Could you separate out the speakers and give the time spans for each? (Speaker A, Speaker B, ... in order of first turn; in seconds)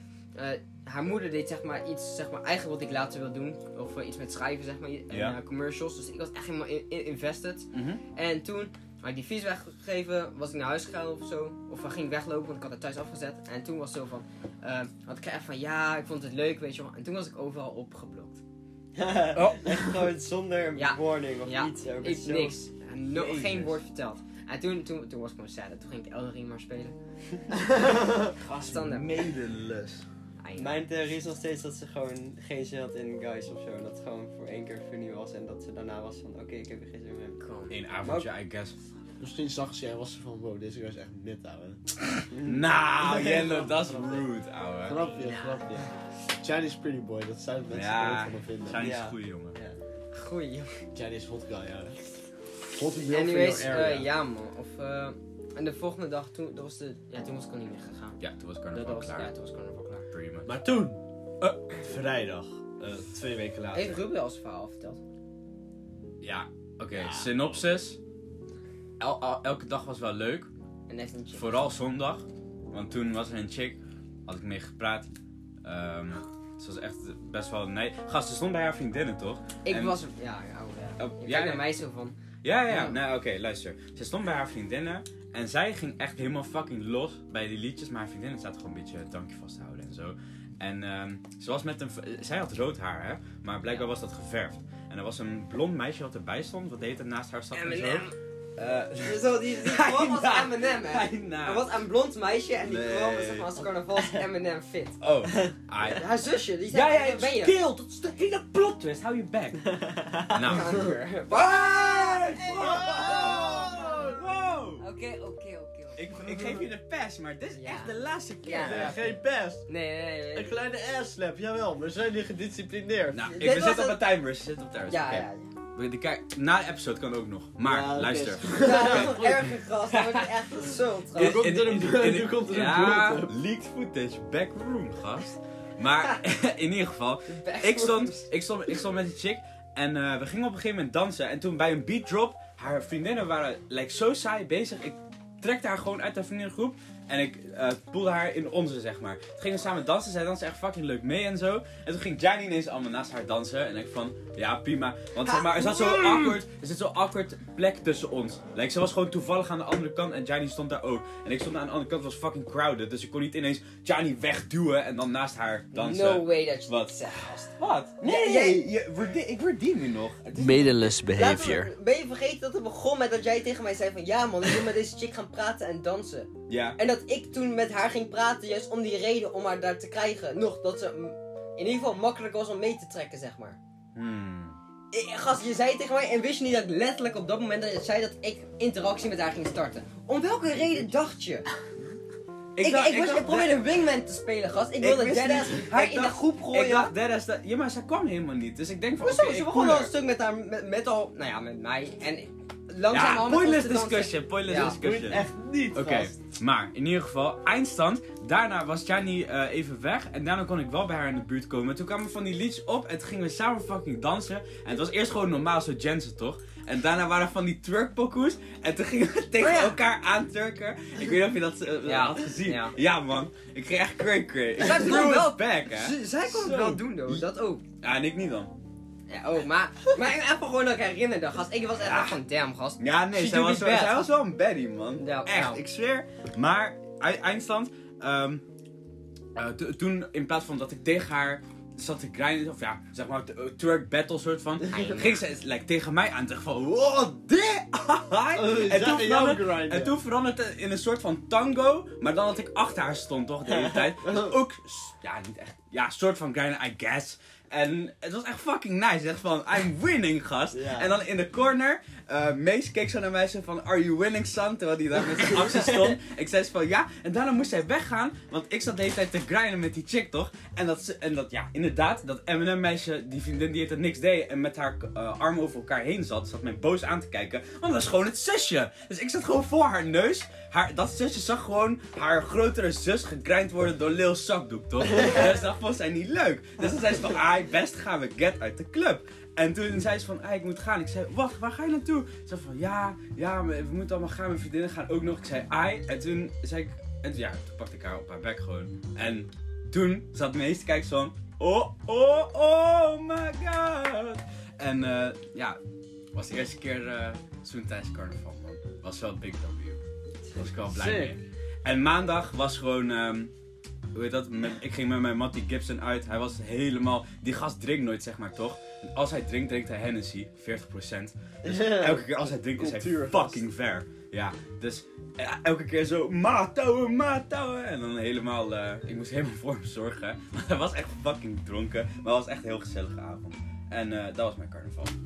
Speaker A: 0.3-18.4, 20.8-26.9, 28.5-29.2, 30.4-30.9, 37.4-37.8, 45.1-45.6, 50.1-50.8, 53.1-58.2, 58.7-60.1, 63.7-65.0, 70.9-71.5, 79.6-83.0, 97.5-98.1, 99.0-105.0, 105.9-107.5, 110.5-114.1, 114.8-116.0, 117.6-119.2, 119.7-120.5, 123.2-124.0, 124.9-125.5, 128.6-131.4, 137.3-138.3, 155.3-156.2, 165.7-168.6, 171.1-183.6, 184.9-191.4, 192.6-196.9, 199.0-204.8, 219.4-219.8, 221.8-222.8, 224.6-227.6, 229.1-234.1, 235.0-235.6, 244.7-245.2
Speaker B: 5.1-5.4, 7.7-8.0, 19.3-19.8, 23.1-23.8, 28.4-30.0, 37.7-38.7, 42.1-45.0, 47.7-49.6, 58.2-59.3, 60.1-60.5, 66.2-68.0, 69.0-70.5, 71.3-75.1, 75.6-80.0, 81.0-81.7, 82.4-101.7, 102.6-103.6, 105.0-106.1, 106.7-109.7, 110.3-114.8, 116.0-119.0, 123.1-130.3, 131.1-167.0, 167.5-170.9, 176.5-176.8, 183.9-184.6, 192.6-193.6, 194.8-199.9, 202.9-227.2, 227.8-228.5, 231.8-232.2, 232.8-238.4, 239.3-305.6, 306.1-309.8, 310.3-313.3, 313.9-334.9
Speaker C: 18.9-22.6, 30.6-37.4, 38.0-38.3, 42.3-44.2, 48.8-49.8, 109.7-110.9, 260.5-260.9
Speaker D: 27.7-28.3, 39.2-41.9, 44.8-48.9, 50.9-54.1, 60.5-61.0, 61.8-64.0, 67.0-67.3, 112.6-114.2, 118.6-119.6, 120.3-123.2, 127.6-129.3, 131.1-133.3, 170.3-171.7, 204.8-206.1, 248.3-250.0, 310.6-311.2, 321.4-323.4